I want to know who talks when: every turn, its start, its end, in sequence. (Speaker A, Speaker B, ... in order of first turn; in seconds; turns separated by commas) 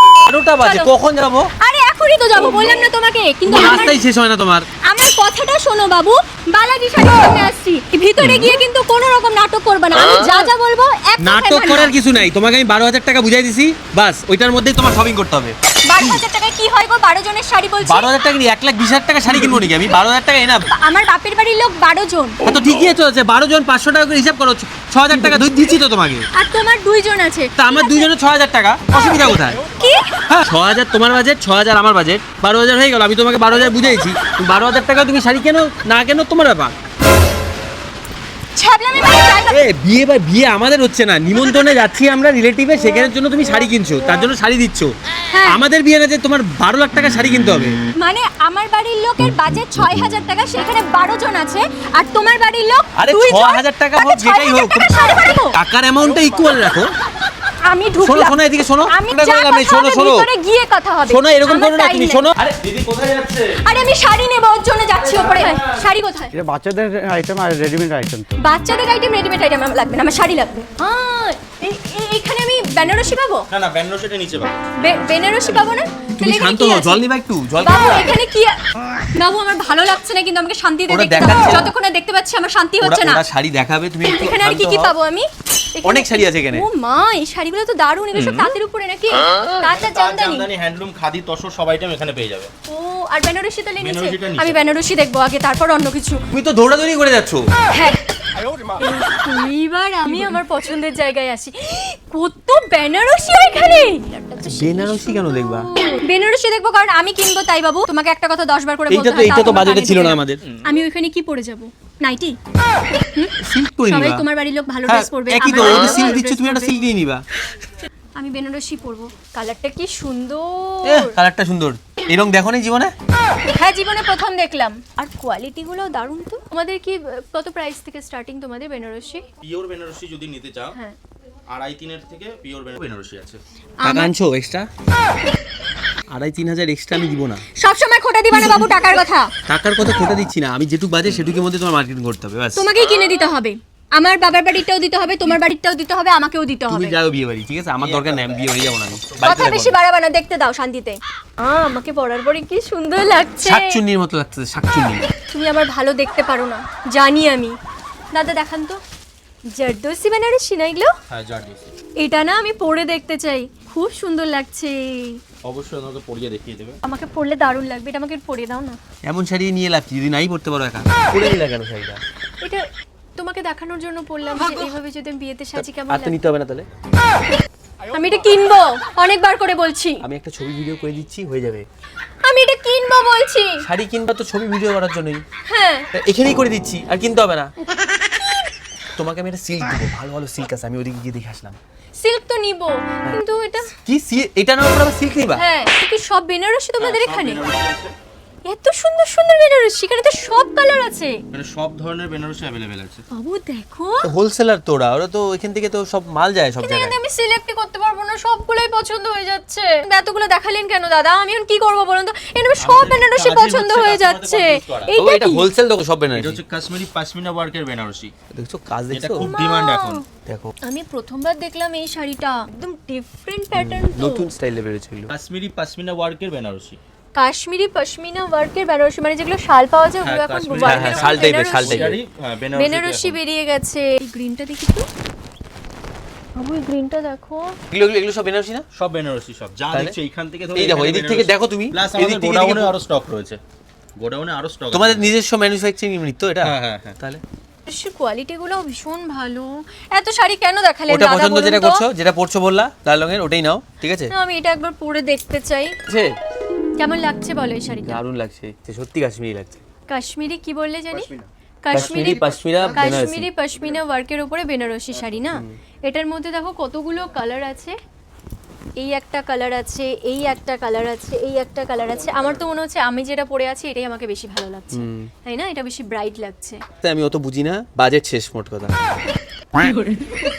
Speaker A: 0.2-1.5, Speaker B: 0.6-0.9, Speaker B: 1.6-4.0, Speaker A: 3.5-4.7, Speaker B: 4.8-11.9, Speaker A: 8.2-8.5, Speaker A: 11.2-16.2, Speaker B: 15.8-18.1, Speaker A: 17.8-20.7, Speaker B: 20.7-22.4, Speaker A: 22.4-26.3, Speaker B: 26.3-28.1, Speaker A: 27.6-29.6, Speaker B: 29.8-30.1, Speaker A: 30.3-36.7, Speaker B: 38.5-39.6, Speaker A: 39.5-44.9, Speaker B: 41.3-41.8, Speaker B: 45.3-45.6, Speaker A: 45.5-47.8, Speaker B: 48.0-55.6, Speaker A: 53.0-54.9, Speaker A: 55.5-56.9, Speaker B: 57.6-62.2, Speaker A: 58.0-60.3, Speaker A: 61.1-62.4, Speaker C: 62.4-63.6, Speaker B: 63.6-66.3, Speaker C: 65.0-65.6, Speaker D: 66.3-68.3, Speaker B: 68.3-73.5, Speaker C: 73.5-75.5, Speaker B: 74.8-77.0, Speaker A: 76.2-78.1, Speaker B: 77.6-78.6, Speaker B: 79.1-83.2, Speaker A: 80.9-81.7, Speaker A: 82.8-84.9, Speaker B: 84.0-90.5, Speaker A: 85.8-86.7, Speaker C: 88.1-88.5, Speaker C: 89.6-92.5, Speaker B: 92.7-96.2, Speaker C: 93.8-94.6, Speaker A: 96.3-97.5, Speaker B: 97.7-98.0, Speaker B: 98.8-112.3, Speaker A: 104.4-105.7, Speaker A: 108.9-110.4, Speaker C: 110.4-110.8, Speaker A: 113.4-114.2, Speaker B: 113.8-116.8, Speaker A: 114.8-117.2, Speaker C: 115.6-116.0, Speaker B: 118.2-121.2, Speaker A: 120.8-122.9, Speaker B: 123.5-129.2, Speaker C: 129.4-130.8, Speaker C: 131.5-133.4, Speaker B: 133.8-134.1, Speaker A: 133.8-134.7, Speaker A: 136.1-137.4, Speaker B: 137.6-139.3, Speaker A: 138.3-138.7, Speaker A: 139.5-142.7, Speaker B: 142.5-147.0, Speaker A: 146.7-149.8, Speaker C: 147.8-149.4, Speaker B: 149.2-153.8, Speaker A: 153.4-155.1, Speaker B: 155.3-157.6, Speaker B: 158.1-158.8, Speaker B: 159.5-160.9, Speaker C: 161.1-161.7, Speaker B: 162.0-165.2, Speaker C: 165.4-166.8, Speaker B: 166.8-168.8, Speaker A: 169.0-172.0, Speaker B: 172.4-172.7, Speaker B: 173.2-176.2, Speaker A: 174.4-174.7, Speaker A: 175.6-176.7, Speaker B: 177.9-180.0, Speaker A: 180.0-181.7, Speaker B: 182.2-183.6, Speaker A: 183.6-185.2, Speaker B: 185.4-185.9, Speaker A: 185.9-187.5, Speaker A: 188.9-191.6, Speaker B: 192.0-193.7, Speaker A: 193.8-195.4, Speaker B: 195.3-197.4, Speaker C: 196.8-197.9, Speaker B: 198.4-201.2, Speaker C: 201.3-203.0, Speaker B: 203.1-204.1, Speaker A: 204.0-206.9, Speaker B: 206.6-215.5, Speaker C: 212.6-214.9, Speaker A: 214.9-216.4, Speaker C: 216.1-218.1, Speaker A: 218.3-219.3, Speaker C: 218.9-220.0, Speaker B: 219.2-220.0, Speaker A: 220.2-220.5, Speaker B: 220.6-224.3, Speaker A: 223.5-225.1, Speaker C: 225.1-226.8, Speaker B: 227.1-232.0, Speaker C: 230.0-233.2, Speaker A: 230.6-232.0, Speaker B: 232.5-234.9, Speaker B: 236.3-237.6, Speaker A: 237.7-238.6, Speaker C: 238.7-243.4, Speaker A: 240.5-242.7, Speaker C: 244.0-245.1, Speaker A: 244.7-247.2, Speaker C: 246.4-247.0, Speaker B: 247.7-251.8, Speaker A: 250.9-254.1, Speaker B: 254.1-255.7, Speaker A: 255.9-256.2, Speaker B: 256.8-258.0, Speaker A: 257.8-259.6, Speaker B: 259.9-261.1, Speaker C: 260.9-263.0, Speaker B: 261.6-267.7, Speaker A: 261.7-263.3, Speaker B: 268.8-276.6, Speaker A: 274.7-275.1, Speaker A: 276.8-278.7, Speaker B: 279.6-280.1